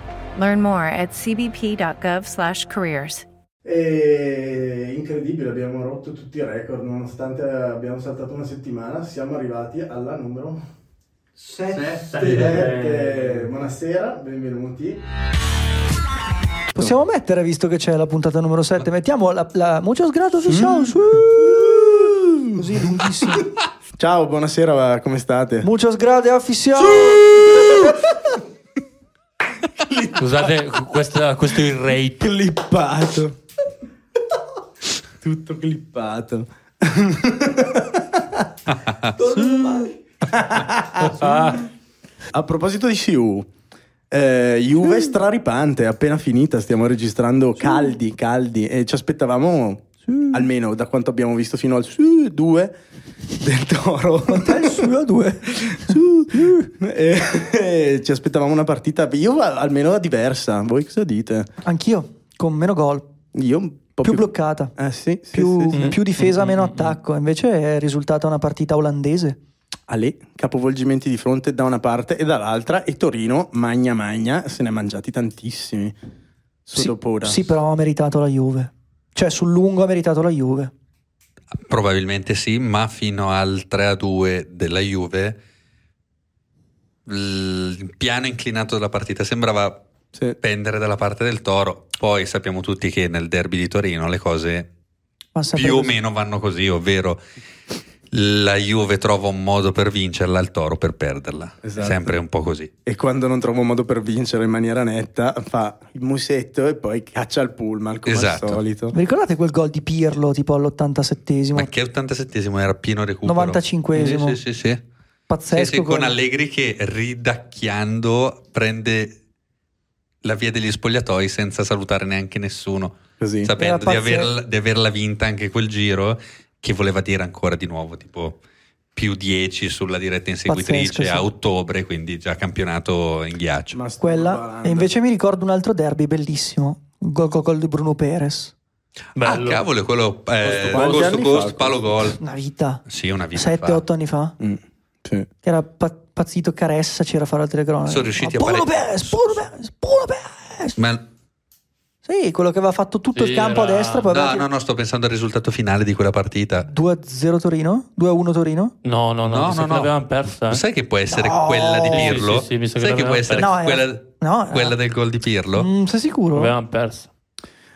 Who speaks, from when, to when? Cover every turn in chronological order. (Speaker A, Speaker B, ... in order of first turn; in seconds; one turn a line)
Speaker A: 0.3-3.2
Speaker B: 3.6-10.6
Speaker C: 11.7-13.5
Speaker B: 12.1-15.0
Speaker D: 12.2-12.6
Speaker E: 16.7-21.6
Speaker B: 20.5-22.6
Speaker E: 22.6-23.5
Speaker B: 24.0-25.7
Speaker E: 25.6-27.2
Speaker B: 26.9-28.2
Speaker B: 29.8-30.5
Speaker C: 30.2-32.3
Speaker B: 32.2-33.4
Speaker B: 35.2-38.5
Speaker D: 38.7-39.4
Speaker B: 39.2-41.7
Speaker B: 42.3-43.5
Speaker B: 44.1-52.7
Speaker E: 50.1-50.4
Speaker B: 53.4-54.9
Speaker E: 54.3-56.0
Speaker B: 55.5-61.5
Speaker E: 61.6-63.1
Speaker B: 63.3-66.0
Speaker E: 64.0-64.7
Speaker E: 65.3-69.4
Speaker C: 65.7-67.0
Speaker B: 69.9-76.0
Speaker B: 76.7-77.5
Speaker E: 76.8-80.7
Speaker D: 81.6-85.4
Speaker D: 87.1-89.8
Speaker D: 90.4-94.7
Speaker E: 95.3-96.0
Speaker D: 95.5-97.2
Speaker D: 98.1-102.7
Speaker B: 101.6-102.2
Speaker B: 102.9-109.0
Speaker D: 108.1-108.6
Speaker E: 108.9-111.7
Speaker D: 111.5-114.8
Speaker E: 113.2-114.4
Speaker E: 115.3-116.1
Speaker D: 115.5-119.2
Speaker D: 120.2-128.4
Speaker B: 123.2-123.5
Speaker E: 123.6-124.3
Speaker D: 128.9-133.8
Speaker E: 130.5-131.3
Speaker B: 133.7-134.9
Speaker E: 134.0-138.5
Speaker C: 139.2-139.7
Speaker D: 139.2-142.2
Speaker C: 140.4-141.4
Speaker B: 140.6-141.9
Speaker E: 142.2-142.8
Speaker D: 142.9-143.8
Speaker E: 143.3-144.3
Speaker B: 144.4-145.3
Speaker E: 145.4-150.8
Speaker D: 147.8-149.5
Speaker D: 150.8-151.1
Speaker E: 152.1-154.5
Speaker C: 153.2-154.1
Speaker D: 154.1-156.7
Speaker E: 156.7-158.8
Speaker C: 158.8-160.6
Speaker D: 159.3-159.9
Speaker D: 160.5-165.7
Speaker E: 161.1-162.2
Speaker C: 161.9-163.5
Speaker E: 163.4-164.8
Speaker E: 165.6-166.5
Speaker C: 166.3-167.1